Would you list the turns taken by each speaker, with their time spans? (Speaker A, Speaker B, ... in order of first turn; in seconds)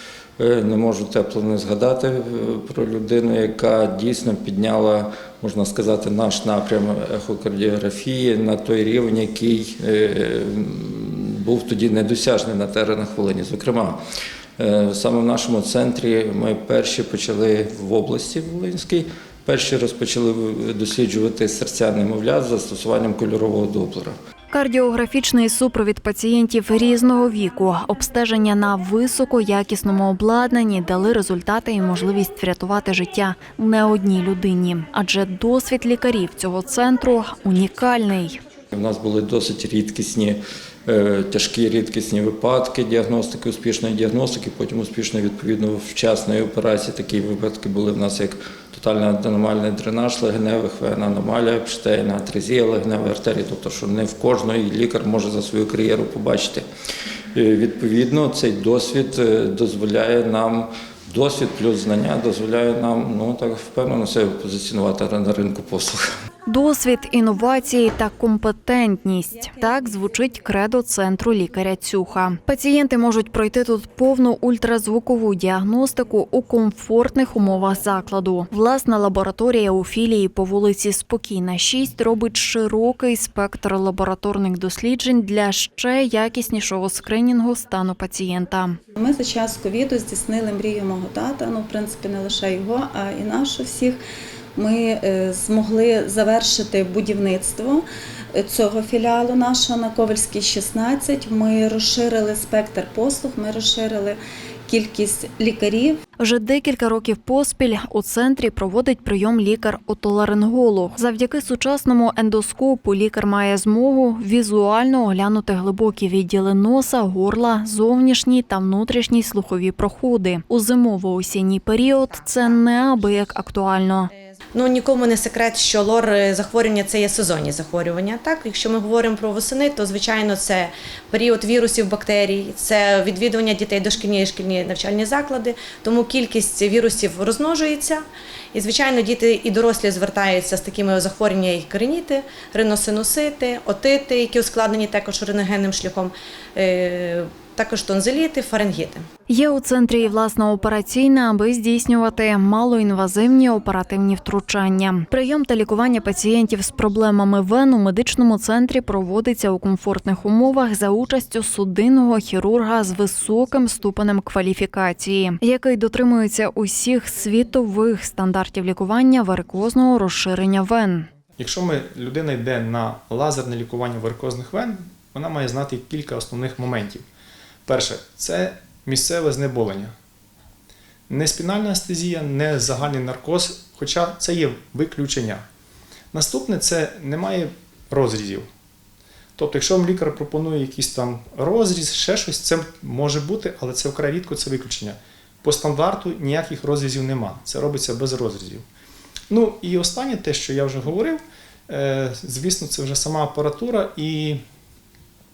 Speaker A: 0.4-14.0, 14.6-24.1, 38.7-56.6, 57.3-66.0
Speaker B: 24.5-38.4, 66.5-88.8, 106.2-124.1, 149.3-171.1
Speaker C: 88.9-94.0, 94.5-97.8, 98.3-106.0
Speaker D: 124.5-149.1
Speaker E: 171.4-177.0, 177.7-179.9, 181.1-185.4, 186.1-188.5, 189.4-198.6, 199.3-204.4